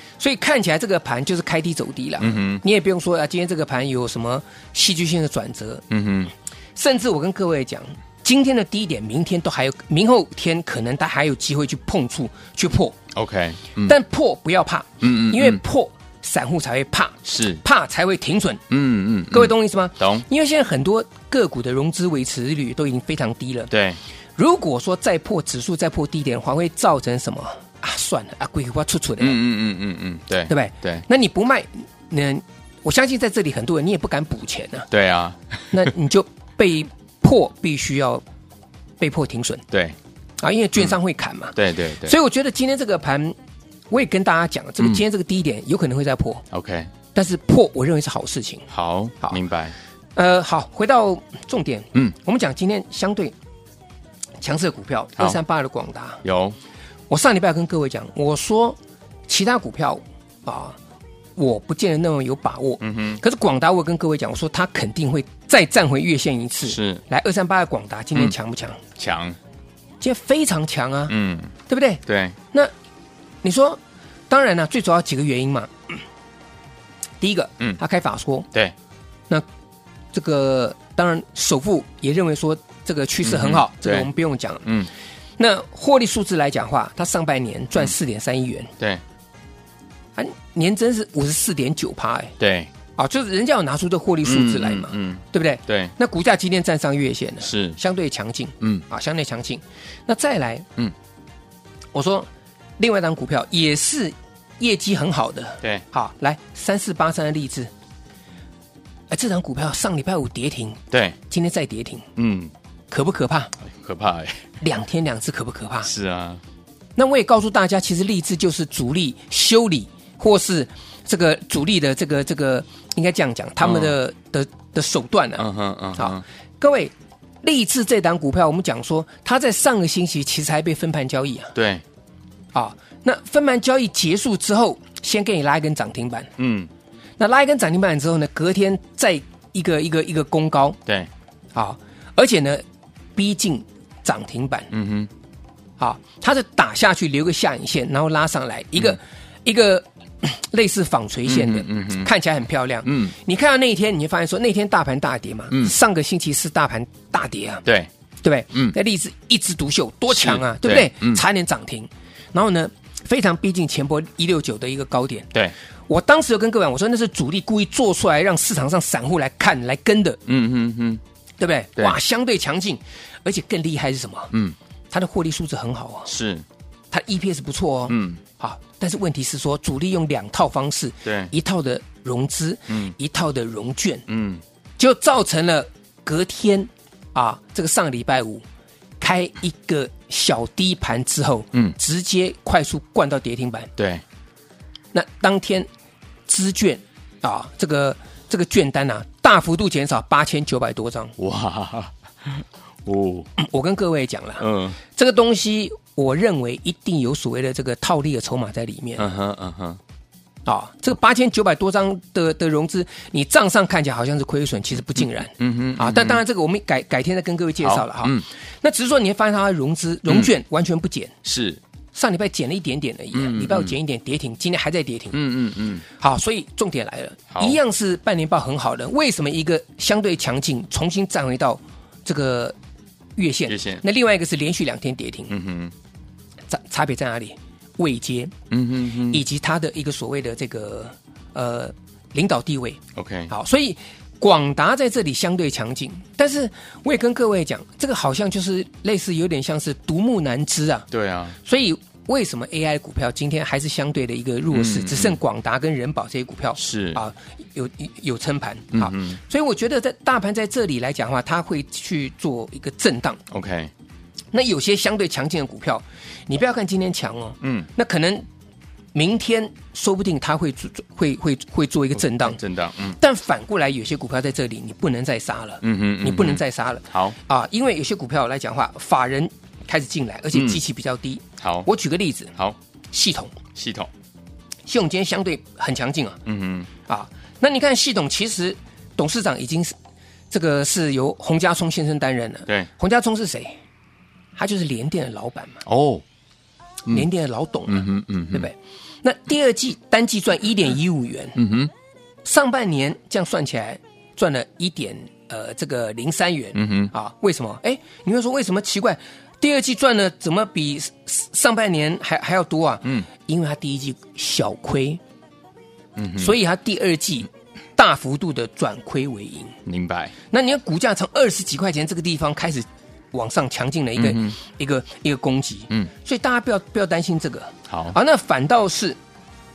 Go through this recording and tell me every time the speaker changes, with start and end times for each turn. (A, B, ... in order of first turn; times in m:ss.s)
0:00.2-0:05.8 A
0:02.2-0:02.6 B
0:05.9-0:06.3 B
0:06.7-0:13.0 A
0:13.1-0:13.9 B
0:13.8-0:18.6 A
0:15.0-0:15.6 B
0:17.2-0:17.6 B
0:18.7-0:20.2 B
0:19.3-0:23.7 A
0:23.7-0:24.0 B
0:24.4-0:29.4 A
0:29.2-0:31.0 B
0:30.4-0:34.9 A
0:34.9-0:35.4 B
0:35.7-0:38.2 A
0:39.0-0:39.6 A
0:40.4-0:43.3 A
0:41.5-0:42.1 B
0:43.9-0:46.4 A
0:46.5-0:46.9 B
0:47.1-0:48.7 A
0:48.7-0:49.7 B
0:50.1-0:53.3 A
0:54.4-0:56.2 A
0:56.2-0:56.6 B
0:57.1-1:00.8 A
1:01.4-1:08.8 A
1:02.8-1:03.2 B
1:06.6-1:07.0 B
1:09.0-1:09.4 B
1:10.0-1:11.1 A
1:11.1-1:11.5 B
1:11.7-1:12.7 A
1:12.1-1:12.3 B
1:13.4-1:13.8 A
1:14.3-1:16.0 A
1:17.2-1:18.5 A
1:20.1-1:24.6 A
1:23.2-1:24.1 B
1:25.4-1:28.7 A
1:30.2-1:32.3 A
1:32.4-1:32.7 B
1:32.9-1:40.7 A
1:34.2-1:35.9 B
1:37.4-1:37.8 B
1:41.9-1:47.7 A
1:49.1-1:52.0 A
1:50.9-1:51.2 B
1:52.2-1:52.5 B
1:52.9-1:53.5 A
1:53.8-1:54.4 B
1:54.6-1:55.9 A
1:55.8-1:56.4 B
1:57.0-2:05.4 A
2:03.6-2:03.9 B
2:05.4-2:06.2 B
2:06.0-2:11.5 A
2:11.5-2:11.8 B
2:12.5-2:16.3 A
2:16.4-2:16.7 B
2:17.2-2:20.8 A
2:21.5-2:22.6 A
2:23.1-2:24.7 A
2:24.7-2:25.1 B
2:25.8-2:37.6 A
2:31.2-2:32.1 B
2:32.8-2:33.1 B
2:38.2-2:45.3 A
2:40.1-2:41.2 B
2:45.9-2:50.2 A
2:50.3-2:51.0 B
2:51.4-2:54.3 A
2:54.3-2:54.6 B
2:54.9-2:56.1 A
2:56.1-2:56.4 B
2:56.9-3:04.0 A
2:57.9-2:58.2 B
3:01.0-3:01.3 B
3:02.7-3:02.9 B
3:04.1-3:04.4 B
3:04.8-3:08.4 A
3:09.0-3:13.7 A
3:13.8-3:14.0 B
3:14.9-3:15.7 A
3:16.3-3:21.1 A
3:21.2-3:23.3 B
3:23.4-3:29.1 A
3:24.4-3:24.8 B
3:29.0-3:29.8 B
3:30.4-3:41.1 A
3:35.4-3:36.2 B
3:37.6-3:38.2 B
3:41.2-3:41.6 B
3:41.9-3:45.2 A
3:43.1-3:43.8 B
3:45.1-3:45.8 B
3:45.9-3:52.6 A
3:47.3-3:47.6 B
3:53.2-3:55.3 A
3:53.5-3:53.8 B
3:55.3-3:55.7 B
3:56.5-3:58.3 A
3:58.5-3:59.2 B
3:59.1-4:10.9 A
4:03.0-4:03.3 B
4:10.9-4:11.4 B
4:11.4-4:23.2 A
4:14.5-4:15.2 B
4:16.6-4:17.0 B
4:18.7-4:19.2 B
4:23.3-4:23.7 B
4:24.3-4:28.2 A
4:27.4-4:27.7 B
4:28.9-4:32.4 A
4:32.2-4:33.0 B
4:32.9-4:42.3 A
4:35.6-4:37.2 B
4:40.3-4:40.6 B
4:41.4-4:41.6 B
4:42.9-4:43.4 A
4:43.6-4:43.9 B
4:44.6-4:46.2 A
4:46.2-4:46.7 B
4:46.8-4:49.7 A
4:50.3-4:53.5 A
4:54.3-4:55.6 A
4:55.6-4:56.0 B
4:56.9-5:01.4 A
4:57.7-4:58.5 B
5:01.4-5:01.7 B
5:02.2-5:15.0 A
5:06.5-5:06.9 B
5:16.0-5:16.3 B
5:16.2-5:19.6 A
5:19.6-5:20.1 B
5:20.3-5:29.0 A
5:24.0-5:24.4 B
5:27.7-5:27.9 B